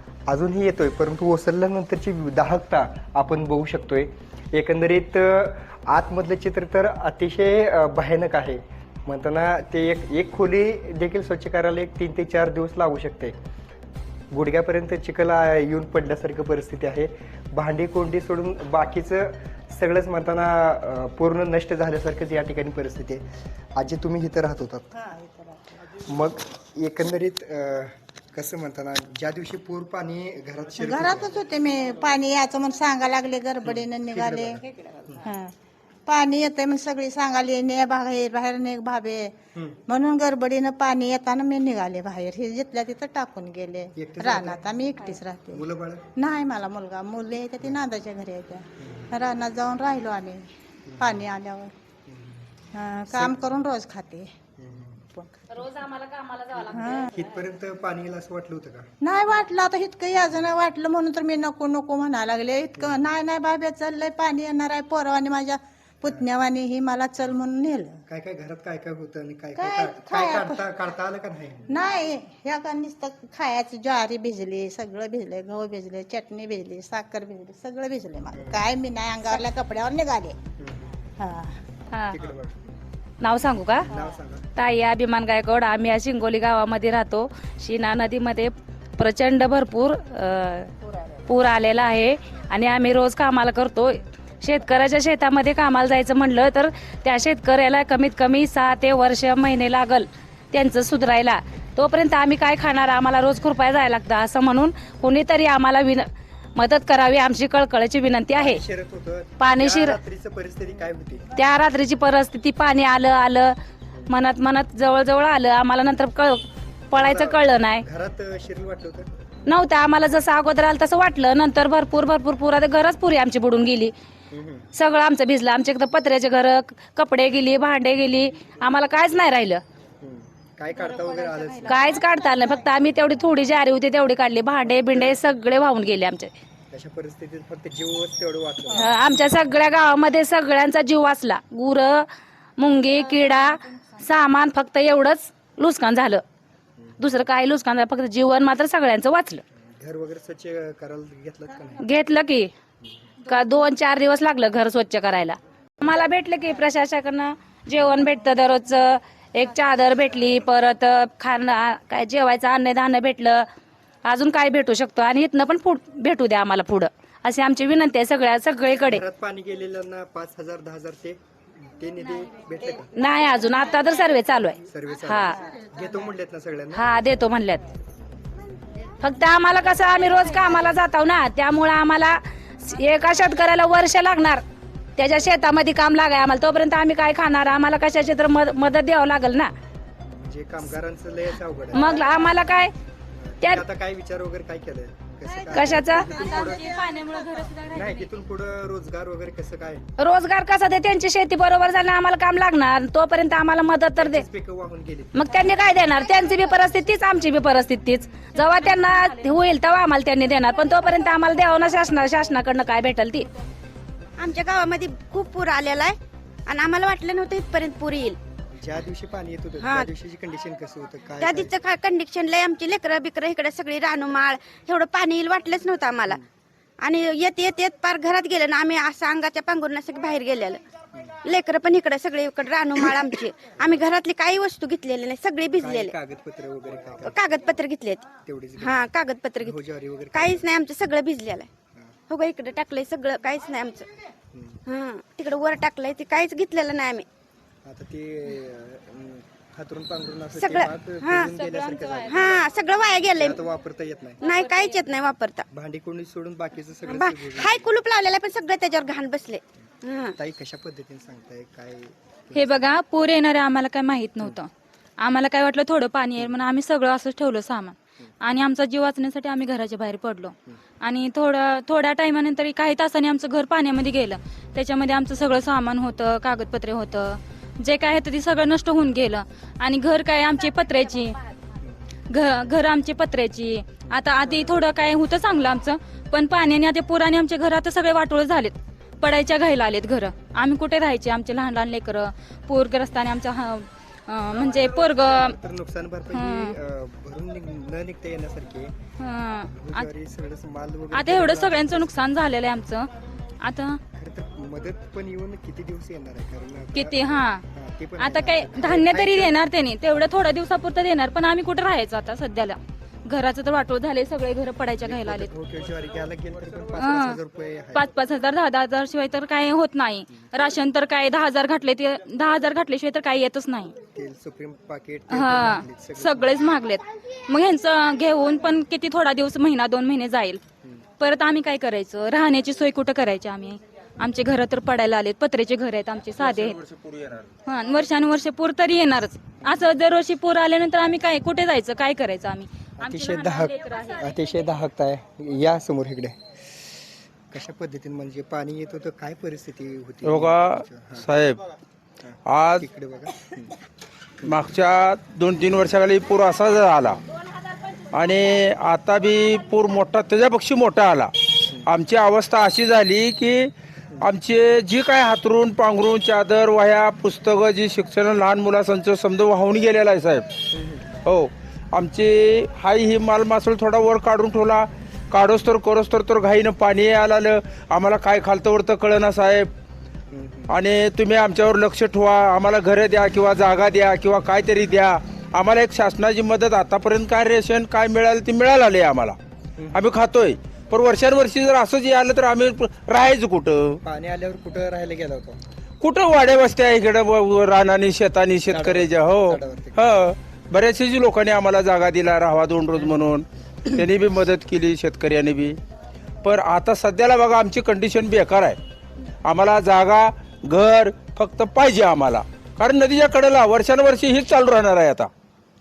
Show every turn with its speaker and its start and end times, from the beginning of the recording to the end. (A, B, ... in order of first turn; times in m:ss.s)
0:00.3-0:13.3 A
0:14.3-0:23.2 A
0:23.8-0:24.9 A
0:25.0-0:25.6 B
0:25.9-0:31.3 A
0:30.8-0:34.6 B
0:33.6-0:35.2 A
0:35.2-0:35.5 B
0:36.0-0:39.3 B
0:39.9-0:45.6 B
0:44.0-0:44.7 A
0:45.5-0:46.0 A
0:46.2-0:50.4 B
0:50.9-0:51.3 A
0:51.0-0:51.7 B
0:52.1-0:52.4 A
0:52.7-0:54.3 B
0:53.1-0:53.4 A
0:54.6-0:55.0 A
0:55.5-0:57.1 C
0:56.7-0:57.1 B
0:57.1-0:58.9 A
0:59.0-1:08.0 B
1:08.1-1:11.7 A
1:09.6-1:10.6 B
1:11.7-1:20.4 B
1:18.3-1:18.6 A
1:20.6-1:21.0 A
1:21.2-1:21.5 B
1:21.9-1:22.2 C
1:22.1-1:22.6 A
1:23.2-1:23.9 C
1:23.9-1:24.4 A
1:24.6-1:30.7 C
1:31.2-1:48.6 C
1:48.4-1:51.2 A
1:49.4-1:50.0 C
1:51.4-1:53.5 C
1:54.1-1:57.8 C
1:56.9-1:59.1 A
1:59.5-2:03.9 C
2:04.3-2:04.7 A
2:04.7-2:09.6 C
2:10.0-2:12.0 A
2:10.7-2:11.9 D
2:11.6-2:16.3 C
2:16.7-2:19.0 A
2:18.7-2:22.1 C
2:22.6-2:26.2 C
2:26.8-2:27.1 A
2:27.0-2:29.4 C
2:29.6-2:31.8 A
2:31.8-2:32.5 C
2:33.2-2:43.4 C
2:44.0-2:49.0 C
2:48.8-2:53.0 A
2:53.0-2:55.4 C
2:54.6-2:56.9 A
2:56.7-2:57.7 C
2:59.0-3:04.4 C
3:05.0-3:09.5 C
3:10.1-3:12.0 A
3:11.7-3:12.7 C
3:13.2-3:16.7 A
3:15.5-3:16.1 C
3:15.9-3:18.1 D
3:17.7-3:19.8 A
3:20.0-3:24.2 C
3:24.0-3:25.4 A
3:25.1-3:33.3 C
3:34.2-3:38.2 E
3:38.5-3:41.5 A
3:39.6-3:39.9 E
3:41.2-3:46.2 E
3:46.8-3:50.6 E
3:51.2-3:55.9 E
3:55.6-3:57.2 A
3:57.0-3:59.6 E
3:58.2-3:58.8 A
3:59.4-4:00.5 A
4:00.1-4:01.5 E
4:02.1-4:03.9 E
4:04.3-4:04.6 A
4:04.7-4:07.0 E
4:07.6-4:12.4 A
4:10.4-4:11.3 E
4:11.4-4:12.1 D
4:12.1-4:13.4 E
4:13.1-4:14.2 A
4:14.2-4:15.4 E
4:14.2-4:14.7 D
4:15.5-4:17.7 A
4:16.8-4:20.2 E
4:20.2-4:22.7 A
4:22.3-4:24.5 D
4:25.0-4:41.2 D
4:42.1-4:55.4 D
4:54.4-4:58.7 A
4:56.1-4:56.5 D
4:59.0-4:59.9 D
4:59.5-5:02.1 A
5:00.9-5:02.9 D
5:03.4-5:03.8 D
5:03.9-5:09.4 A
5:06.7-5:07.4 D
5:08.0-5:15.3 D
5:14.8-5:17.9 A
5:16.8-5:17.2 D
5:17.7-5:23.7 D
5:23.9-5:26.5 A
5:25.1-5:30.4 D
5:31.0-5:36.6 D
5:36.2-5:37.3 F
5:37.4-5:44.1 D
5:42.8-5:46.2 A
5:47.3-5:51.1 A
5:50.0-5:51.4 F
5:52.0-5:53.5 A
5:52.3-5:52.6 F
5:54.2-5:57.0 F
5:57.9-6:01.1 F
6:01.6-6:10.2 F
6:10.5-6:10.9 A
6:11.0-6:19.5 F
6:20.1-6:20.6 A
6:20.5-6:29.2 F
6:29.6-6:29.8 A
6:29.7-6:33.8 F
6:33.8-6:35.4 A
6:35.8-6:45.6 F
6:38.5-6:39.9 A
6:46.2-6:48.6 F
6:49.2-6:55.1 F